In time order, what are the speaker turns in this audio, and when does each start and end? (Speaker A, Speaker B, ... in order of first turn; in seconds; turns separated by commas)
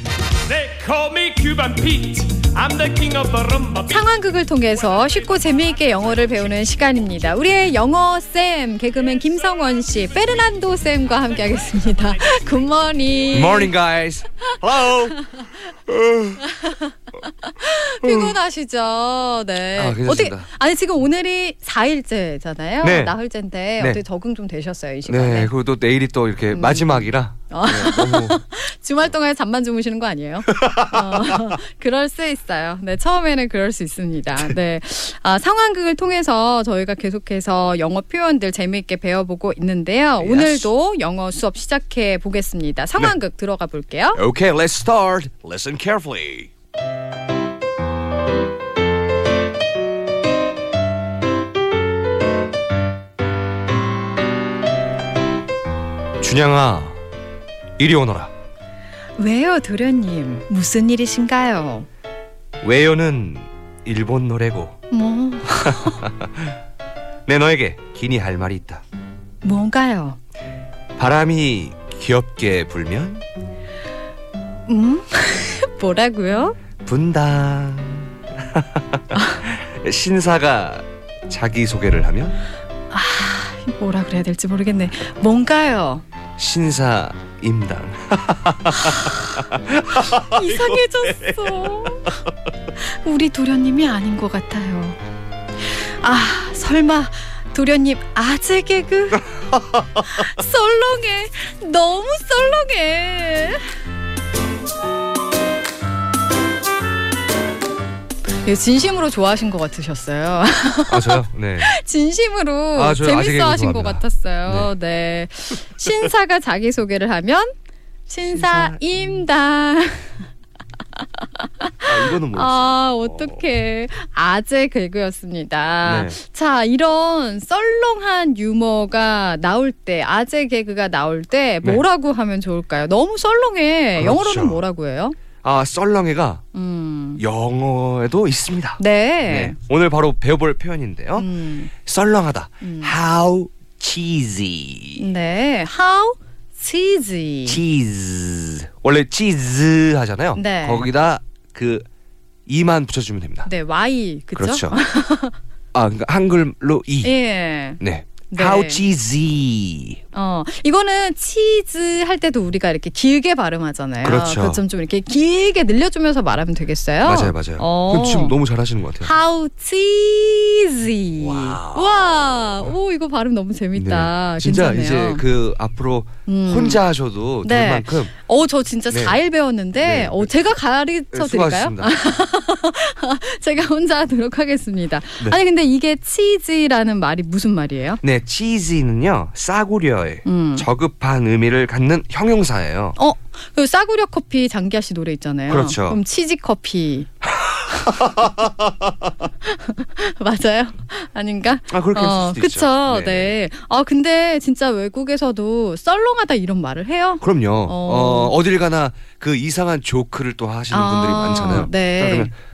Speaker A: 0.5-3.9, Speaker B: 3.8-13.7, Speaker C: 13.3-15.2, Speaker C: 15.9-16.4, Speaker B: 16.4-25.5, Speaker C: 19.8-20.5, Speaker C: 22.8-23.1, Speaker C: 25.1-28.4, Speaker B: 26.5-44.2, Speaker C: 30.6-31.4, Speaker C: 40.2-40.7, Speaker C: 44.1-46.5, Speaker C: 56.2-57.0, Speaker C: 57.8-58.3, Speaker B: 59.2-61.9, Speaker C: 62.6-64.8, Speaker B: 64.9-66.0, Speaker C: 65.7-66.3, Speaker C: 67.2-68.8, Speaker B: 69.4-70.2, Speaker C: 71.0-73.2, Speaker B: 74.7-76.6, Speaker C: 76.8-82.4, Speaker B: 82.9-86.0, Speaker C: 86.4-90.8, Speaker B: 88.8-89.2, Speaker B: 90.1-92.2, Speaker B: 93.0-95.0, Speaker B: 95.7-99.3, Speaker B: 100.0-103.6, Speaker B: 108.4-117.5, Speaker C: 110.9-111.7, Speaker C: 112.8-114.7, Speaker B: 118.1-120.1, Speaker C: 118.3-118.8, Speaker B: 121.0-135.2, Speaker C: 121.8-123.5, Speaker C: 125.8-126.2, Speaker C: 134.0-134.6, Speaker C: 135.4-136.4, Speaker B: 136.5-137.2, Speaker C: 137.2-145.1, Speaker B: 138.8-139.6, Speaker B: 141.2-141.7, Speaker B: 142.6-142.9, Speaker B: 145.0-147.6, Speaker C: 147.4-151.9, Speaker B: 150.4-150.9, Speaker C: 152.5-153.5, Speaker B: 153.4-155.3, Speaker C: 154.4-154.8, Speaker C: 155.7-157.1, Speaker B: 157.0-158.8, Speaker C: 157.8-160.0, Speaker B: 160.1-168.4, Speaker C: 164.0-164.6, Speaker C: 167.1-169.1, Speaker B: 169.0-175.2, Speaker C: 171.2-172.2, Speaker C: 173.8-178.1, Speaker B: 176.2-176.8, Speaker B: 177.4-188.0, Speaker C: 178.9-179.2, Speaker C: 179.8-180.3, Speaker C: 181.1-181.9, Speaker C: 188.0-192.9, Speaker B: 190.2-190.7, Speaker B: 193.0-197.1, Speaker C: 195.5-196.0, Speaker C: 197.4-198.3, Speaker B: 199.4-208.3, Speaker C: 201.7-203.3, Speaker C: 207.2-212.3, Speaker B: 210.7-212.3